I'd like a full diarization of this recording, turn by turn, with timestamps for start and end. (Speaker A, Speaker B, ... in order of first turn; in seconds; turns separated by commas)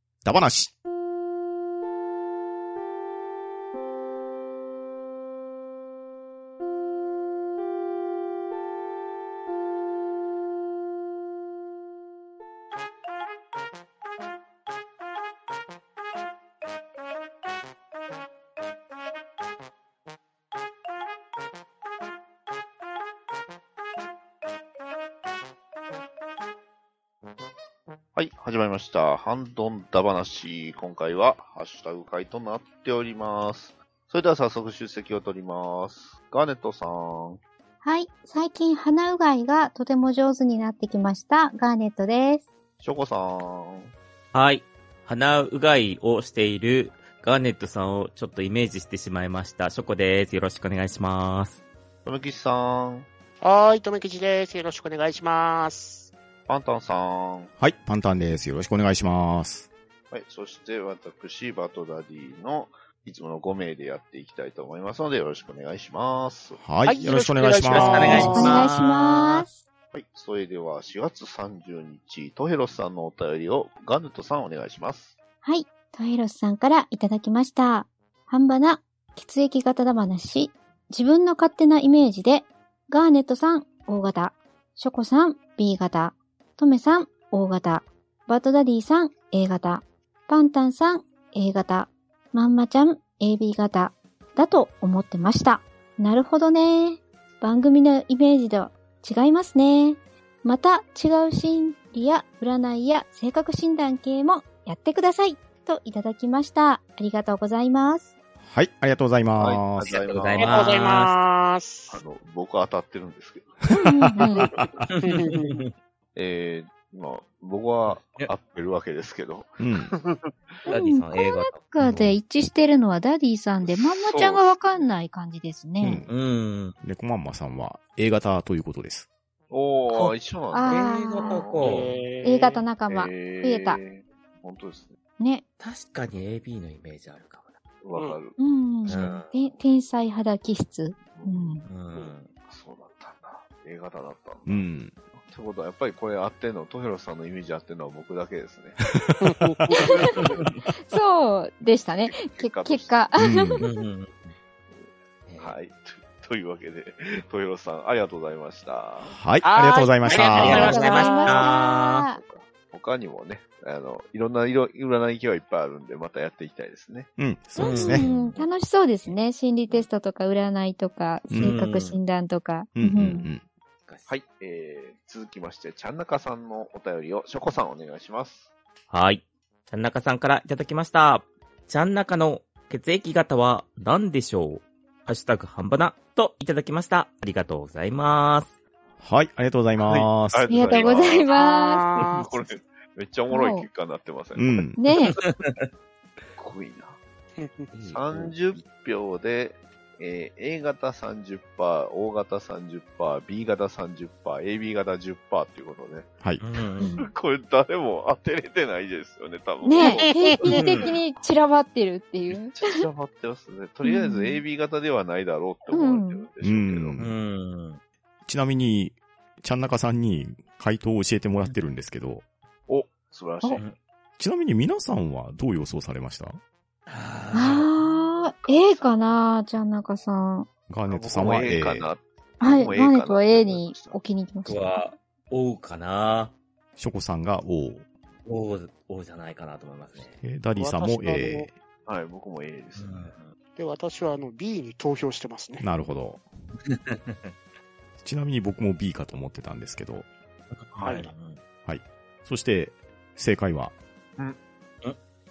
Speaker A: 0.2-0.7, Speaker B: 28.1-37.4, Speaker C: 37.8-42.5, Speaker B: 42.8-43.9, Speaker D: 44.3-51.6, Speaker B: 52.0-53.1, Speaker E: 53.4-56.1, Speaker B: 56.5-57.5, Speaker A: 57.6-59.7, Speaker B: 60.1-66.6, Speaker A: 66.6-68.4, Speaker E: 66.8-68.6, Speaker D: 67.7-69.5, Speaker C: 68.0-69.6, Speaker B: 69.9-75.2, Speaker C: 75.4-108.1, Speaker A: 108.4-109.9, Speaker B: 109.4-110.7, Speaker D: 109.9-111.2, Speaker E: 110.4-112.0, Speaker B: 111.9-113.7, Speaker C: 113.7-114.5, Speaker A: 113.8-114.9, Speaker D: 114.9-115.7, Speaker E: 115.0-115.6, Speaker B: 116.2-120.3, Speaker D: 117.9-118.3, Speaker A: 119.6-119.9, Speaker D: 120.7-121.6, Speaker C: 120.7-126.1, Speaker A: 121.8-122.2, Speaker B: 123.6-124.9, Speaker A: 125.8-126.1, Speaker D: 126.1-126.8, Speaker A: 126.8-129.1, Speaker B: 129.5-131.9, Speaker D: 129.9-130.2, Speaker C: 130.5-131.4, Speaker E: 130.7-132.7, Speaker D: 130.7-132.1, Speaker C: 132.2-133.8, Speaker B: 132.9-135.0, Speaker C: 135.2-135.4, Speaker D: 135.6-137.5, Speaker B: 137.8-139.6, Speaker C: 138.4-141.7, Speaker D: 138.9-139.3, Speaker B: 141.0-141.6, Speaker D: 141.6-142.3, Speaker B: 142.5-148.8, Speaker A: 144.5-144.9, Speaker A: 148.9-149.9, Speaker E: 149.2-150.2, Speaker C: 149.8-150.2, Speaker C: 150.8-153.7, Speaker B: 152.1-153.1, Speaker A: 153.2-153.7, Speaker D: 153.6-154.3, Speaker D: 155.3-155.6, Speaker B: 155.4-159.2, Speaker A: 159.0-160.7, Speaker E: 159.4-161.5, Speaker C: 160.1-162.2, Speaker D: 160.4-162.1, Speaker B: 162.1-167.1, Speaker A: 167.2-168.1, Speaker C: 167.6-173.3, Speaker D: 167.6-168.4, Speaker B: 168.2-168.5, Speaker A: 171.3-171.6, Speaker D: 171.4-172.0, Speaker A: 172.8-173.4, Speaker D: 173.9-174.2, Speaker B: 174.1-178.5, Speaker D: 178.9-188.6, Speaker A: 189.0-190.8, Speaker B: 189.8-191.3, Speaker C: 190.5-192.0, Speaker E: 191.3-192.3, Speaker B: 192.1-194.7, Speaker C: 193.3-193.7, Speaker A: 194.4-194.8, Speaker C: 194.8-195.2, Speaker D: 195.1-195.7, Speaker B: 196.4-197.0, Speaker E: 197.4-197.7, Speaker D: 197.7-198.6, Speaker B: 197.9-206.1, Speaker D: 206.4-206.9, Speaker C: 206.8-207.1, Speaker B: 206.9-210.9, Speaker C: 209.6-212.9, Speaker E: 209.8-210.4, Speaker D: 210.5-210.9, Speaker B: 212.3-217.1, Speaker C: 213.8-214.4, Speaker C: 215.7-216.3, Speaker A: 216.4-217.2, Speaker D: 217.0-217.8, Speaker A: 218.2-222.2, Speaker B: 222.7-223.6, Speaker A: 224.2-226.4, Speaker D: 226.9-227.7, Speaker C: 227.3-230.5, Speaker B: 227.8-229.2, Speaker A: 230.7-231.9, Speaker B: 230.9-234.0, Speaker C: 232.4-234.8, Speaker D: 234.4-236.4, Speaker A: 236.8-237.8, Speaker D: 238.2-240.2, Speaker A: 240.0-241.5, Speaker E: 240.6-241.5, Speaker B: 241.9-243.1, Speaker D: 242.8-243.3, Speaker E: 243.6-245.7, Speaker A: 245.6-246.2, Speaker D: 246.7-247.3, Speaker A: 248.0-250.1, Speaker D: 250.5-251.4, Speaker E: 250.8-251.1, Speaker A: 251.7-253.8